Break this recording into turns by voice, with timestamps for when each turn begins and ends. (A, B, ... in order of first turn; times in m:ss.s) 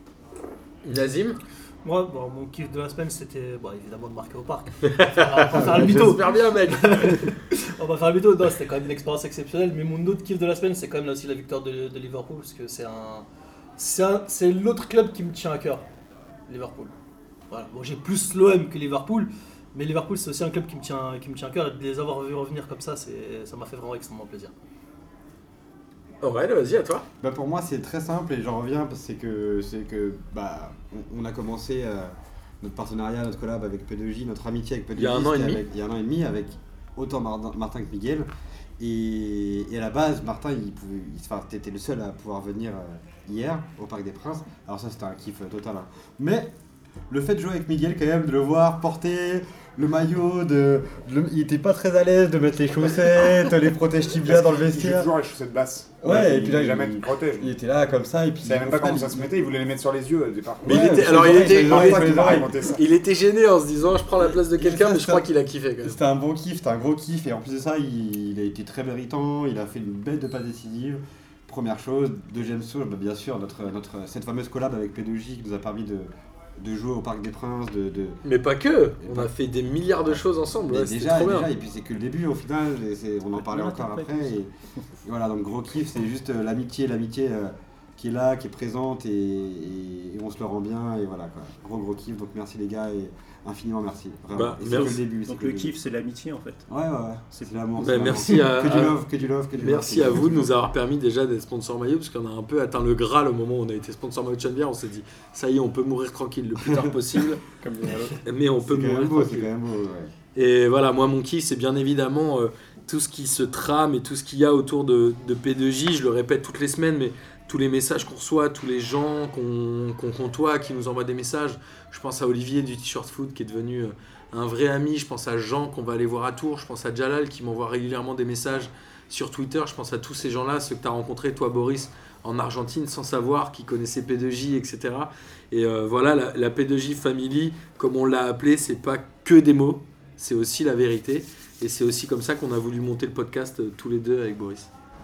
0:00.8-0:01.4 A
0:01.8-0:13.3 B
0:04.8-0:07.3 A
0:05.7-0:06.0 C
0:13.8-0:15.8 B
0:16.5-0:16.9 B
0:17.5-0:24.5 B
0:26.2-0:27.1 A
0:27.2-0:38.3 C
0:35.0-0:35.6 A
0:38.8-0:46.5 C
0:47.1-0:55.1 C
0:54.2-0:57.5 D
0:56.0-0:59.3 C
0:58.4-1:02.8 D
1:00.6-1:02.6 C
1:00.6-1:06.0 A
1:04.3-1:05.3 C
1:05.8-1:18.2 C
1:18.2-1:21.5 A
1:19.0-1:19.3 C
1:19.9-1:24.5 C
1:23.4-1:24.3 E
1:25.0-1:35.8 C
1:34.3-1:35.0 A
1:34.6-1:36.6 E
1:36.7-1:40.6 C
1:37.8-1:39.0 A
1:39.6-1:47.4 A
1:47.5-1:48.2 E
1:48.2-1:49.5 A
1:48.6-1:50.1 C
1:50.4-2:24.7 A